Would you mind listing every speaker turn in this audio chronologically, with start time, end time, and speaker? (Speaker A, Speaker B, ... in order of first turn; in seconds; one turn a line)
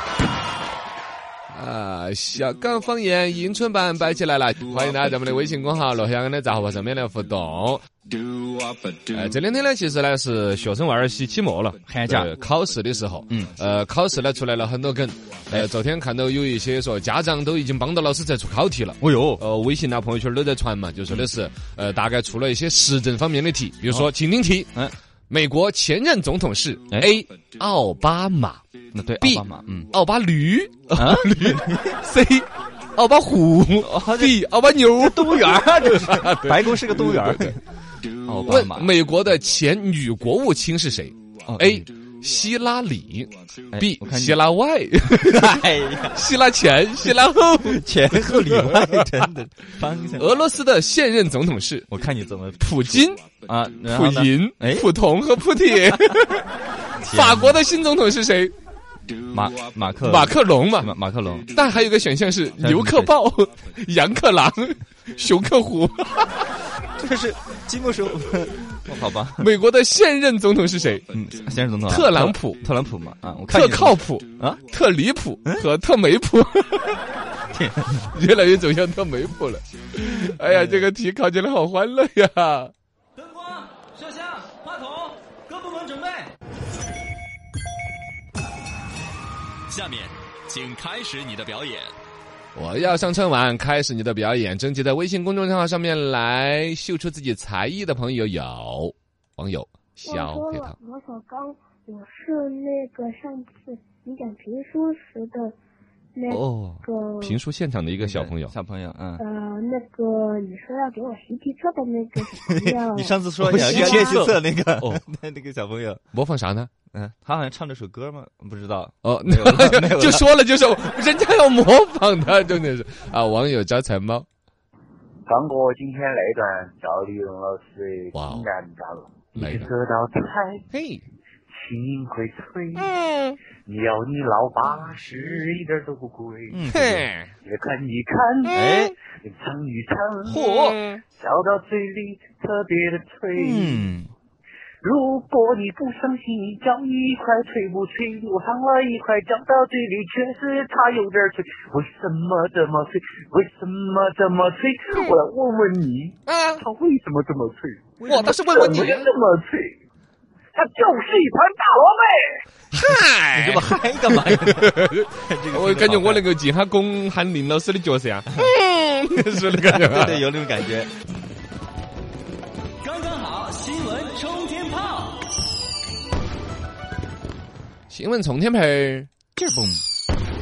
Speaker A: 1.5-7.9
Speaker A: 9.1-24.8
Speaker B: 11.9-12.3
Speaker B: 19.0-19.4
Speaker A: 25.3-28.6
Speaker B: 28.9-29.9
Speaker A: 29.2-37.6
Speaker B: 30.9-32.0
Speaker B: 33.8-37.6
Speaker B: 38.3-38.9
Speaker A: 38.4-49.3
Speaker B: 41.5-41.9
Speaker B: 43.7-44.4
Speaker B: 45.2-46.2
Speaker B: 47.6-50.4
Speaker A: 50.2-51.9
Speaker B: 51.9-54.9
Speaker A: 52.6-53.2
Speaker A: 53.9-56.5
Speaker B: 57.0-57.6
Speaker A: 57.1-58.5
Speaker B: 59.3-61.5
Speaker A: 60.0-60.9
Speaker A: 61.5-66.5
Speaker B: 62.6-63.1
Speaker B: 67.0-69.5
Speaker A: 69.4-71.2
Speaker B: 71.1-74.6
Speaker A: 71.9-72.7
Speaker A: 73.5-77.0
Speaker B: 77.5-78.1
Speaker A: 78.1-82.7
Speaker B: 80.4-80.9
Speaker B: 83.2-86.3
Speaker B: 89.7-92.0
Speaker A: 92.5-100.8
Speaker C: 100.1-105.6
Speaker C: 106.2-107.4
Speaker B: 106.3-106.8
Speaker A: 107.2-108.5
Speaker B: 108.0-109.2
Speaker C: 109.2-114.2
Speaker B: 112.4-116.0
Speaker A: 113.4-115.0
Speaker A: 116.1-116.7
Speaker B: 116.9-120.3
Speaker A: 119.0-124.3
Speaker D: 125.3-130.6
Speaker A: 128.1-128.5
Speaker A: 129.4-129.7
Speaker A: 130.7-131.0
Speaker D: 131.6-132.9
Speaker A: 132.8-133.4
Speaker D: 133.7-136.6
Speaker B: 136.5-137.1
Speaker A: 136.7-137.3
Speaker D: 137.4-143.9
Speaker A: 138.5-138.9
Speaker B: 138.5-138.9
Speaker A: 140.2-141.0
Speaker B: 143.3-144.1
Speaker D: 144.8-159.8
Speaker A: 156.3-156.6
Speaker A: 158.1-159.1
Speaker D: 160.6-162.4
Speaker A: 162.7-170.3
Speaker B: 163.3-166.2
Speaker B: 169.5-170.9
Speaker E: 172.8-175.2
Speaker A: 177.9-179.1
Speaker B: 179.4-179.8